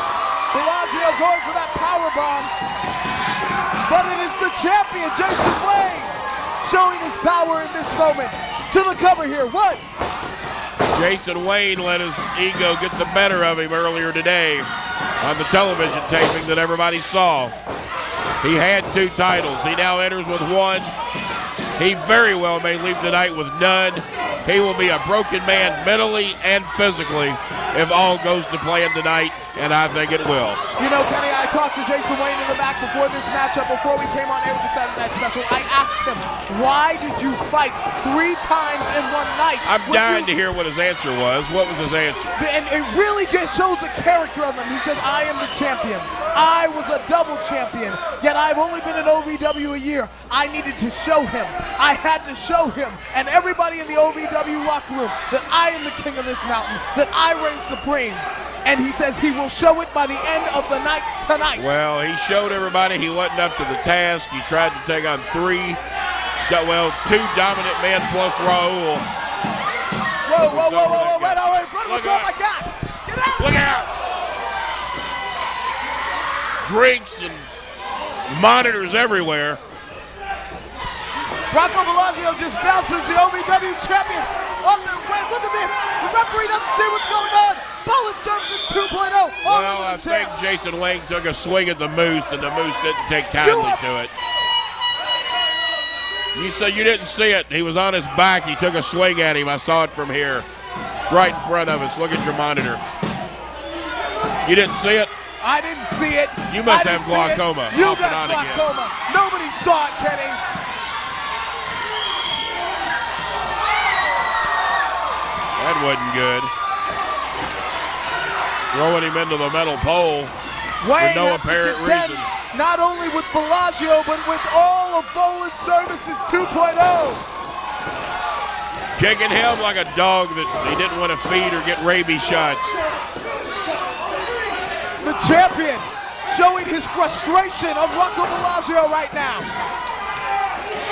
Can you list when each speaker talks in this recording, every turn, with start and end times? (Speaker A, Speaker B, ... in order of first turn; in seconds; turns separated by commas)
Speaker A: 0.5-2.5, Speaker A: 3.9-9.8, Speaker B: 10.9-14.7, Speaker B: 15.2-17.5, Speaker B: 18.4-20.9, Speaker B: 21.8-30.6, Speaker A: 30.8-40.3, Speaker B: 39.6-42.3, Speaker A: 42.3-61.7, Speaker B: 61.5-65.8, Speaker B: 66.5-69.0, Speaker A: 70.2-73.7, Speaker B: 70.4-72.3, Speaker B: 73.4-73.9, Speaker B: 76.6-77.5, Speaker B: 78.3-79.6, Speaker A: 81.5-90.3, Speaker B: 89.4-94.1, Speaker A: 93.4-93.8, Speaker B: 96.3-100.5, Speaker B: 101.1-102.8, Speaker B: 104.4-105.1, Speaker A: 105.4-110.4, Speaker B: 106.5-108.6, Speaker B: 115.6-116.5, Speaker B: 118.7-120.3, Speaker A: 120.8-127.2, Speaker B: 121.0-122.3, Speaker B: 128.9-132.8, Speaker A: 135.0-139.5